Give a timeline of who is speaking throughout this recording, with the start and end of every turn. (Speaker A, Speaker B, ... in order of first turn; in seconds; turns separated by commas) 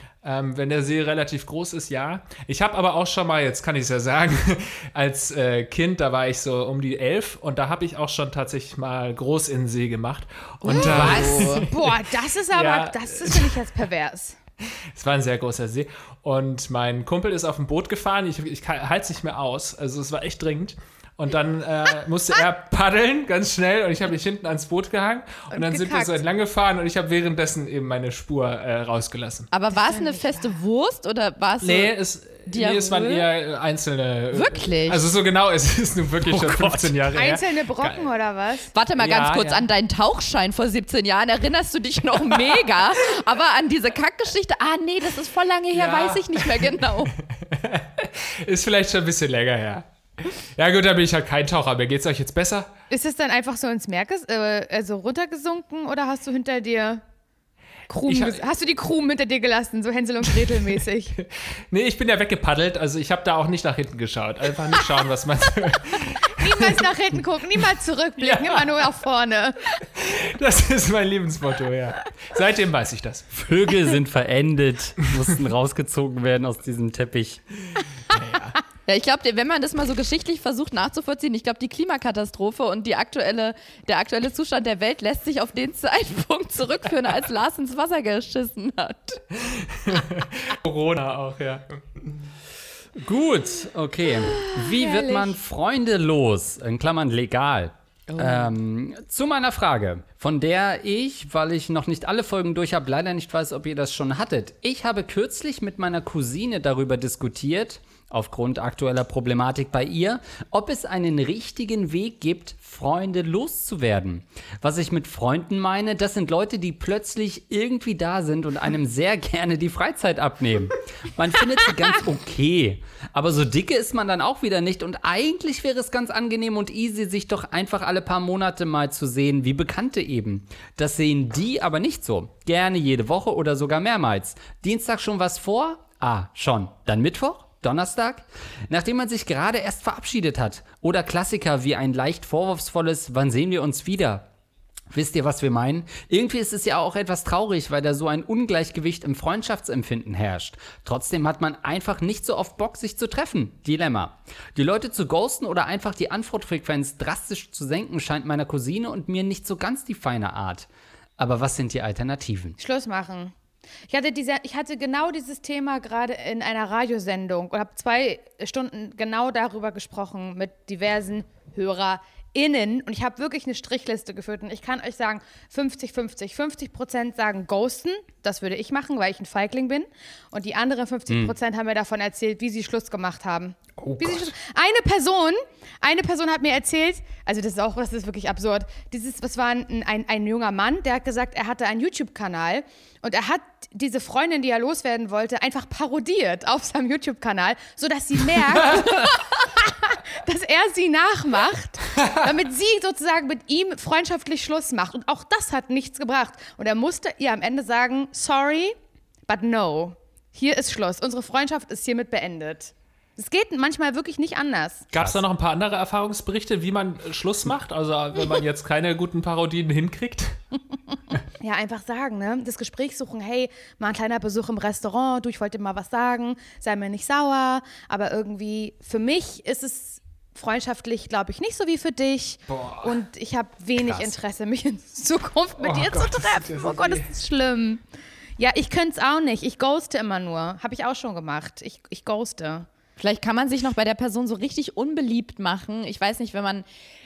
Speaker A: 0.2-13.7, Speaker B: 10.6-11.7, Speaker C: 10.7-14.4, Speaker A: 14.6-29.5, Speaker C: 25.5-26.2, Speaker B: 29.5-31.9, Speaker C: 29.8-30.2, Speaker A: 31.6-38.1, Speaker B: 32.5-33.3, Speaker B: 34.3-35.0, Speaker D: 36.2-37.0, Speaker C: 37.1-38.7, Speaker B: 38.7-47.1, Speaker A: 39.0-39.7, Speaker A: 45.7-52.7, Speaker C: 52.9-57.0, Speaker C: 57.9-61.2, Speaker A: 58.1-58.4, Speaker A: 61.2-66.9, Speaker C: 66.3-69.8, Speaker A: 68.2-68.8, Speaker A: 69.9-73.3, Speaker D: 73.3-77.4, Speaker A: 77.8-78.6, Speaker B: 78.9-89.2, Speaker A: 89.4-92.1, Speaker D: 93.0-144.3, Speaker C: 94.3-95.3, Speaker D: 144.9-162.6, Speaker C: 162.6-163.3, Speaker C: 163.9-208.8, Speaker D: 181.1-181.3, Speaker D: 183.8-184.3, Speaker A: 198.6-198.9, Speaker A: 202.0-202.2, Speaker C: 209.3-214.9, Speaker A: 214.9-220.4, Speaker D: 214.9-215.2, Speaker C: 221.4-237.8, Speaker A: 232.5-233.0, Speaker D: 233.8-234.2, Speaker A: 235.6-237.1, Speaker C: 238.4-242.7, Speaker B: 243.0-246.7